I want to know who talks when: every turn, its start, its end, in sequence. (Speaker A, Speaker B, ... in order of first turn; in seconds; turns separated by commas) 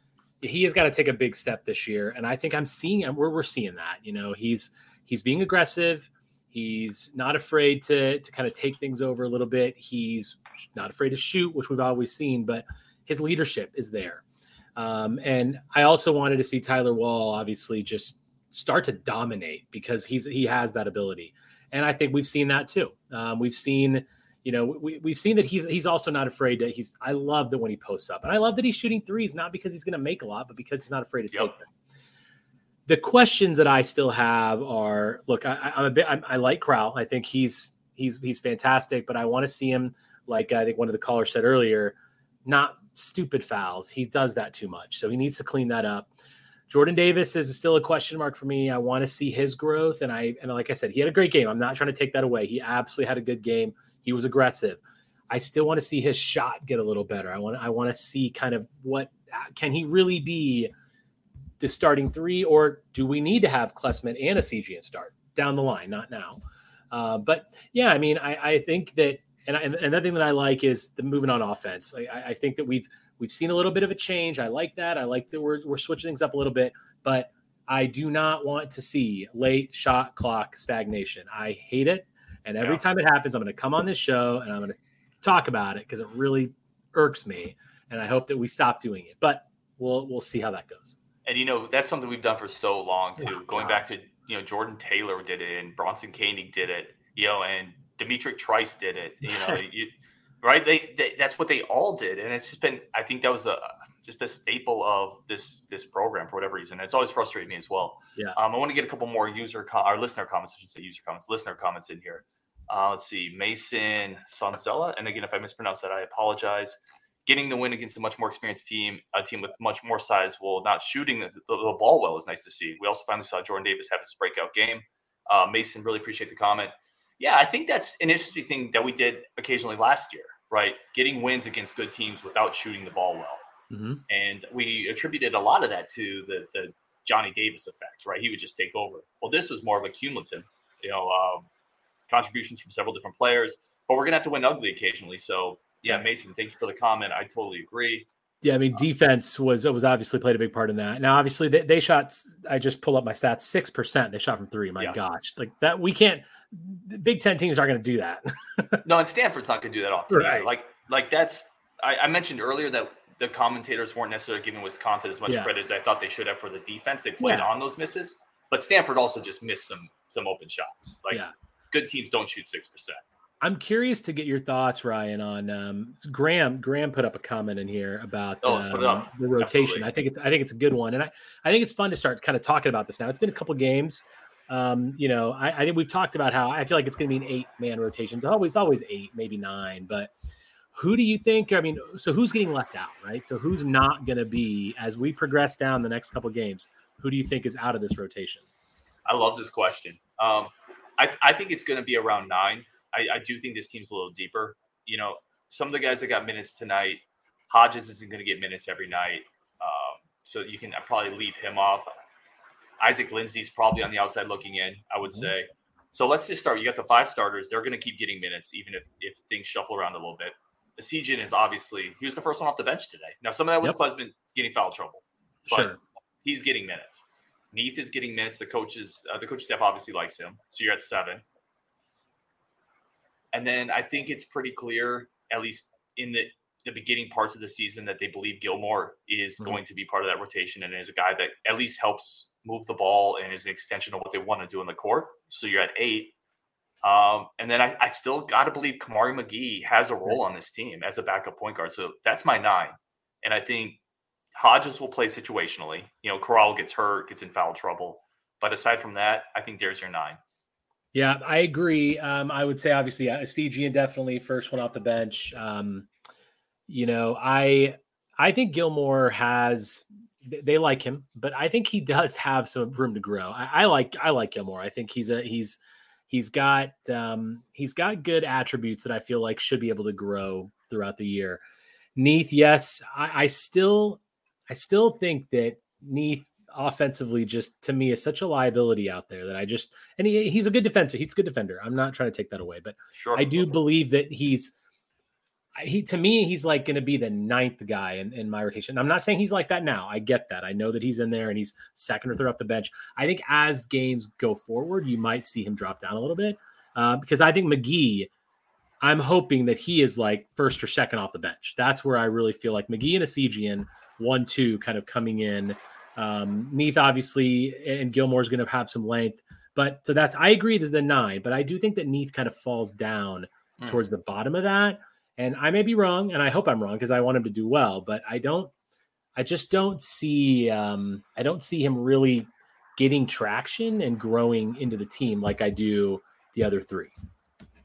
Speaker A: 0.4-14.2, Speaker A: 14.8-31.7, Speaker B: 31.3-31.6, Speaker A: 32.9-46.1, Speaker A: 46.7-60.7, Speaker A: 61.6-91.0, Speaker B: 91.2-133.4, Speaker A: 93.2-93.9, Speaker A: 99.3-99.6, Speaker A: 133.7-134.0, Speaker B: 134.1-141.5, Speaker B: 142.1-148.1, Speaker A: 148.4-158.8, Speaker B: 158.8-173.0, Speaker A: 160.1-160.5, Speaker A: 167.2-167.5, Speaker A: 173.4-190.1, Speaker B: 178.4-179.9, Speaker A: 190.7-198.5, Speaker B: 199.1-211.9, Speaker B: 212.8-225.7, Speaker A: 225.5-225.8, Speaker B: 226.2-231.2, Speaker B: 233.3-246.1, Speaker B: 246.8-253.8, Speaker B: 254.4-260.2, Speaker A: 260.9-265.9, Speaker A: 266.7-281.4, Speaker A: 282.0-294.6, Speaker B: 292.9-293.6, Speaker A: 295.6-308.1, Speaker A: 308.8-328.5, Speaker A: 329.2-336.9